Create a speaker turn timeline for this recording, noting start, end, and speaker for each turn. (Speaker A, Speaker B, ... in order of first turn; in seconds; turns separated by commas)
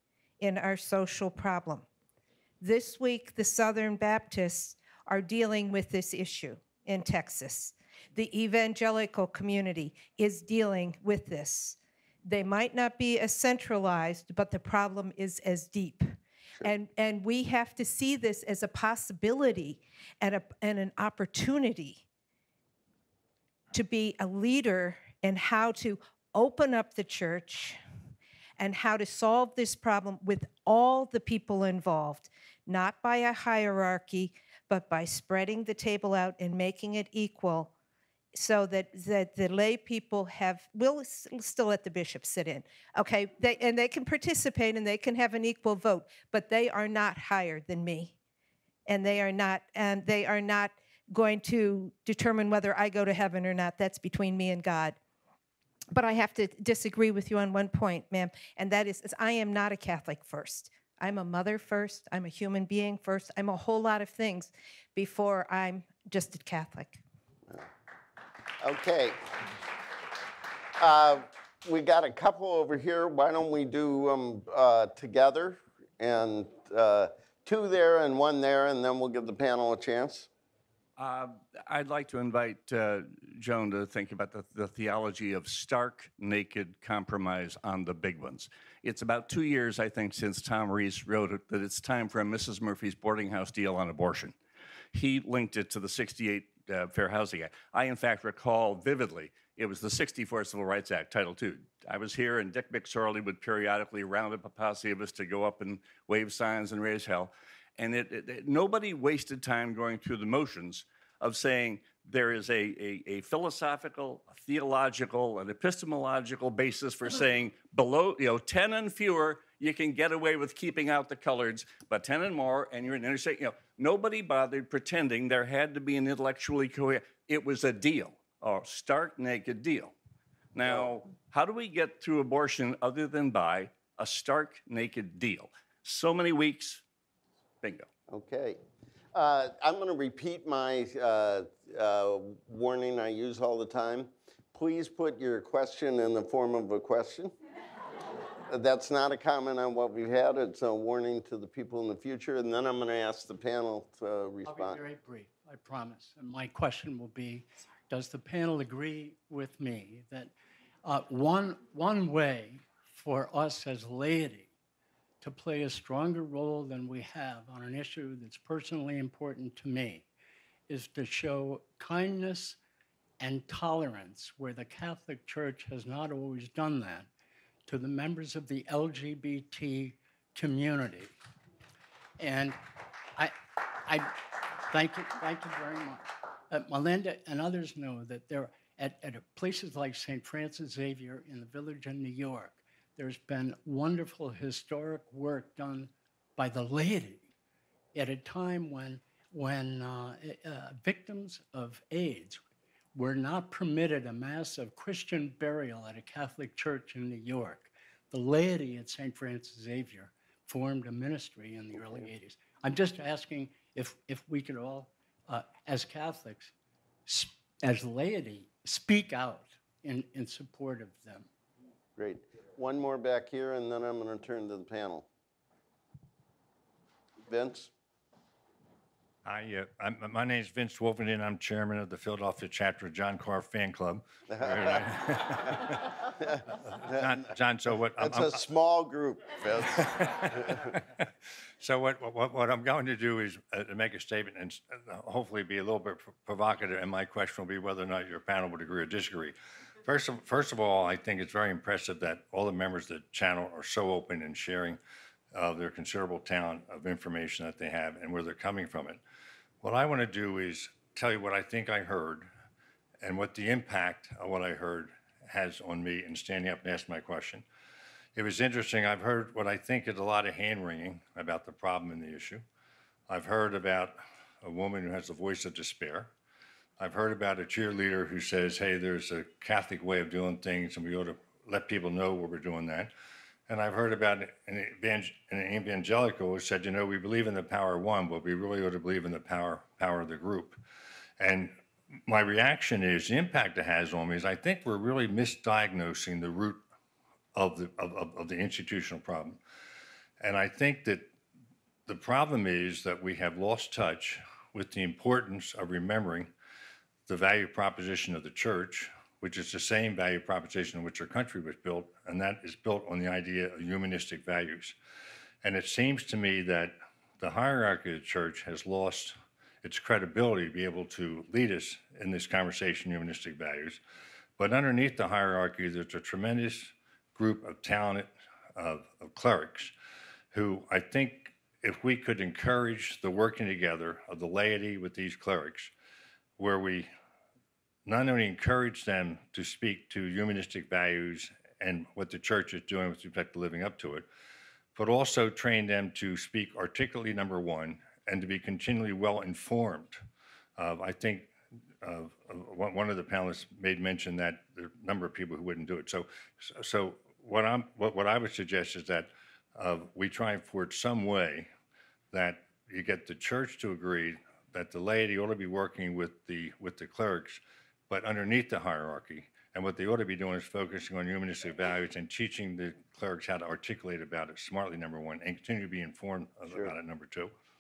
Speaker A: 0.4-1.9, Speaker A: 2.6-22.0, Speaker A: 23.7-27.8, Speaker A: 28.6-37.7, Speaker A: 38.3-48.1, Speaker A: 48.9-55.0, Speaker A: 55.9-67.0, Speaker B: 68.6-69.4, Speaker B: 70.8-80.3, Speaker C: 81.0-94.4, Speaker C: 94.9-129.9, Speaker C: 130.5-136.8, Speaker B: 130.7-130.9, Speaker C: 137.6-137.9, Speaker B: 138.1-138.6, Speaker B: 139.1-147.3, Speaker B: 148.5-154.8, Speaker D: 154.4-160.3, Speaker D: 160.8-164.5, Speaker D: 165.2-170.1, Speaker D: 170.7-172.6, Speaker D: 173.2-177.1, Speaker D: 177.7-181.1, Speaker D: 182.2-182.6, Speaker D: 183.2-197.3, Speaker D: 197.9-202.4, Speaker D: 202.9-216.5, Speaker D: 217.1-221.3, Speaker B: 222.0-225.1, Speaker B: 227.3-227.7, Speaker E: 229.2-235.8, Speaker B: 234.3-235.5, Speaker B: 236.3-237.2, Speaker E: 236.9-238.4, Speaker B: 238.0-240.5, Speaker E: 239.8-240.6, Speaker E: 241.6-254.8, Speaker E: 255.3-259.0, Speaker E: 259.6-262.3, Speaker E: 263.0-267.4, Speaker E: 268.1-272.4, Speaker E: 273.1-276.1, Speaker E: 276.8-282.9, Speaker E: 283.5-290.6, Speaker E: 291.2-296.6, Speaker E: 297.4-299.4, Speaker E: 300.2-301.1, Speaker E: 301.9-306.3, Speaker E: 307.1-314.8, Speaker E: 315.4-323.8, Speaker E: 324.4-329.7, Speaker E: 330.3-335.7, Speaker E: 336.4-336.9, Speaker E: 337.9-344.1, Speaker E: 344.8-350.0, Speaker E: 350.6-351.3, Speaker E: 351.8-361.5, Speaker E: 362.1-377.3, Speaker B: 376.5-376.7